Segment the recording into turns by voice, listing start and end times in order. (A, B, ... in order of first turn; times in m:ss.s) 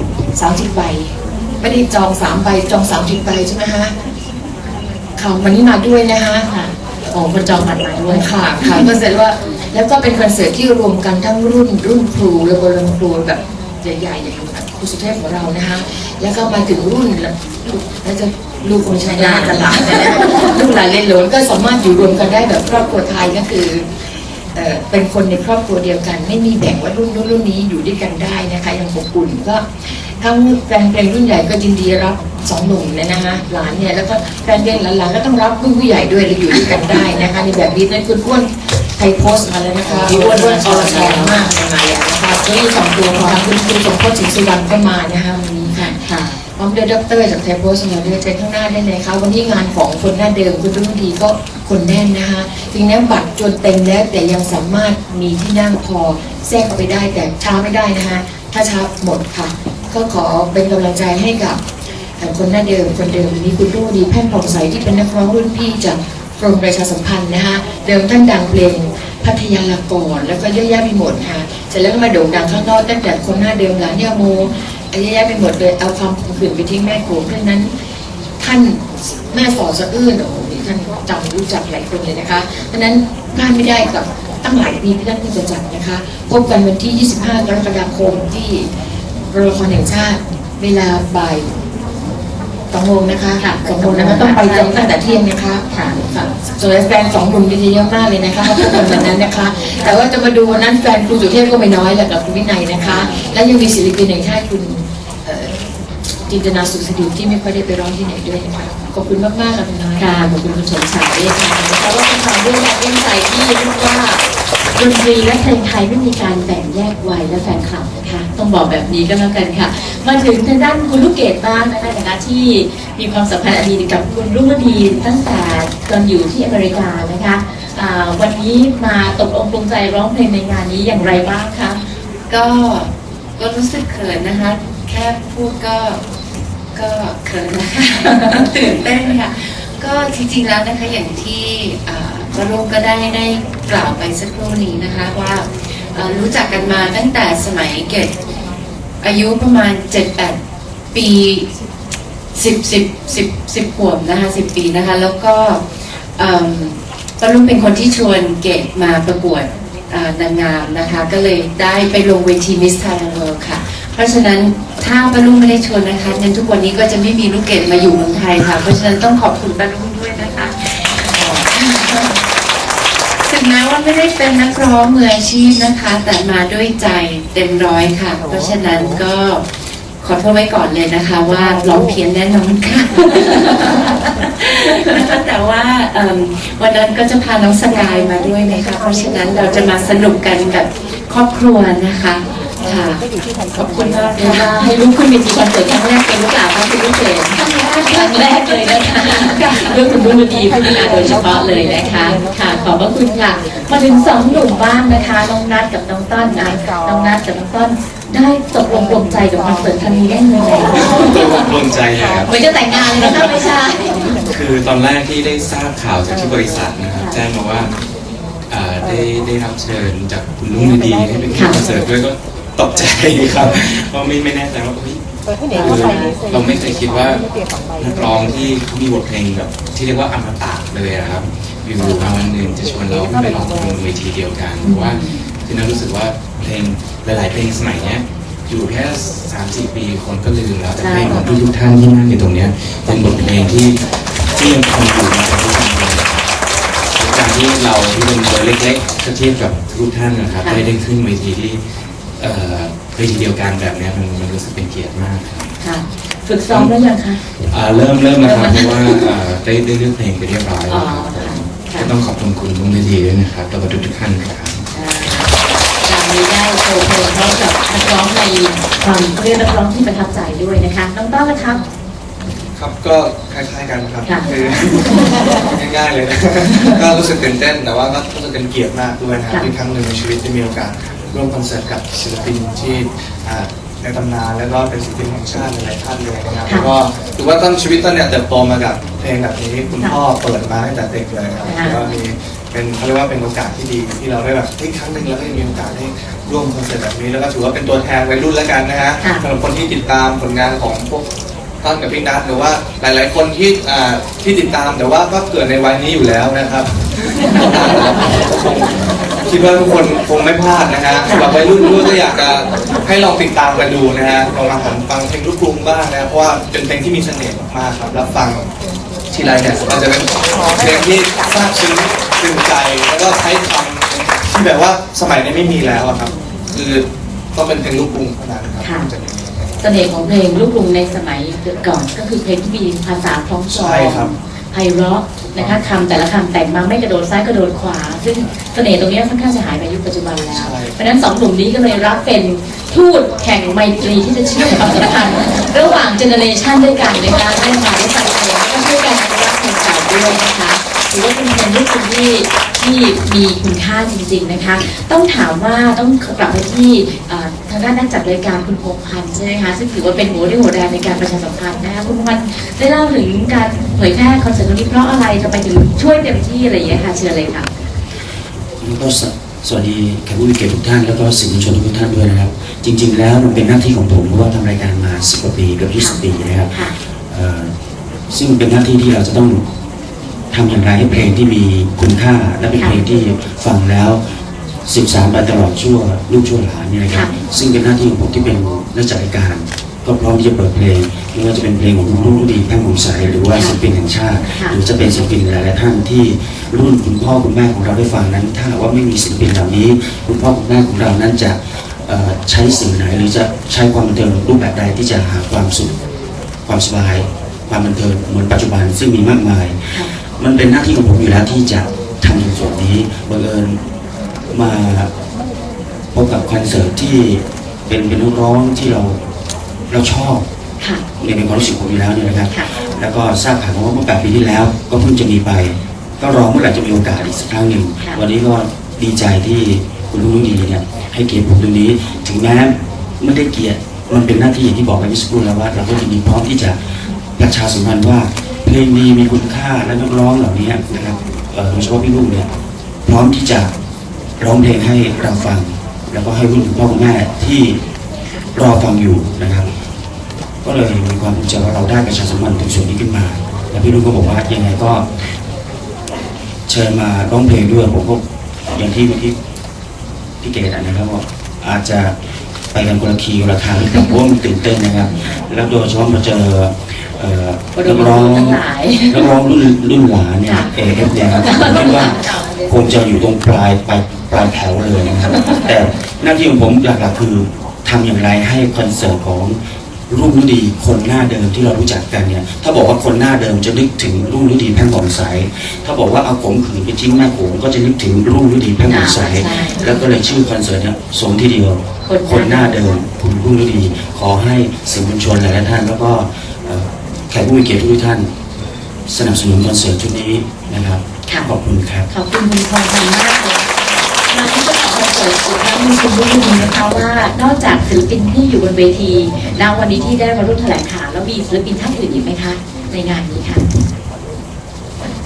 0:00.3-0:03.9 A
0:05.2-0:06.5 A
0:06.4-0:08.9 B
0:08.1-0:23.9 A
0:19.1-0:20.6 B
0:24.5-1:01.6 A
0:39.8-0:41.4 B
0:43.1-0:43.5 B
0:45.7-0:46.4 B
1:02.2-1:17.7 A
1:18.4-1:28.7 A
1:29.3-1:31.5 A
1:32.7-1:45.5 A
1:33.4-1:34.9 B
1:35.7-1:36.0 B
1:38.4-1:39.0 B
1:42.9-1:43.1 B
1:46.3-1:50.4 A
1:50.0-1:54.2 B
1:54.8-2:11.8 B
2:12.3-2:16.0 C
2:16.7-2:28.1 C
2:18.1-2:18.4 B
2:29.0-2:30.4 C
2:30.9-2:31.5 C
2:32.3-2:52.1 C
2:53.2-2:59.5 C
3:00.0-3:13.0 C
3:12.7-3:13.0 B
3:13.5-3:31.3 B
3:14.2-3:14.5 C
3:17.8-3:18.4 C
3:30.8-3:32.3 D
3:32.3-3:34.1 B
3:34.3-3:37.7 D
3:36.9-3:37.2 B
3:38.5-3:45.0 D
3:45.5-4:06.1 D
3:45.7-3:46.2 B
3:54.6-3:55.2 B
4:00.8-4:01.3 B
4:07.0-4:15.5 D
4:15.6-4:17.2 B
4:16.5-4:24.6 D
4:18.2-4:19.1 B
4:20.7-4:21.9 B
4:24.7-4:31.6 B
4:32.6-5:01.0 E
4:51.4-4:51.8 B
5:01.6-5:08.7 E
5:09.2-5:18.5 E
5:11.0-5:11.5 B
5:19.1-5:29.5 E
5:28.6-5:28.9 B
5:29.6-6:07.5 B
5:33.5-5:34.1 E
5:35.2-5:35.6 E
5:40.3-5:40.8 E
6:08.6-6:17.5 F
6:18.1-6:19.4 F
6:20.3-6:24.0 F
6:24.7-6:45.7 F
6:34.3-6:34.6 B
6:46.4-6:53.6 F
6:54.3-6:54.9 F
6:55.9-6:59.0 F
6:59.7-7:00.2 F
7:01.0-7:16.6 F
7:17.2-7:22.3 F
7:22.8-7:23.5 F
7:24.2-7:27.6 F
7:28.3-7:29.5 F
7:30.4-7:35.1 F
7:36.5-7:39.1 F
7:40.2-7:41.9 F
7:42.5-7:59.4 F
7:47.5-7:49.1 B
7:51.2-7:52.2 B
7:59.9-8:18.1 F
8:08.6-8:09.8 B
8:09.2-8:09.6 A
8:11.9-8:12.6 B
8:18.9-8:21.9 F
8:21.9-8:23.6 B
8:24.1-8:33.4 B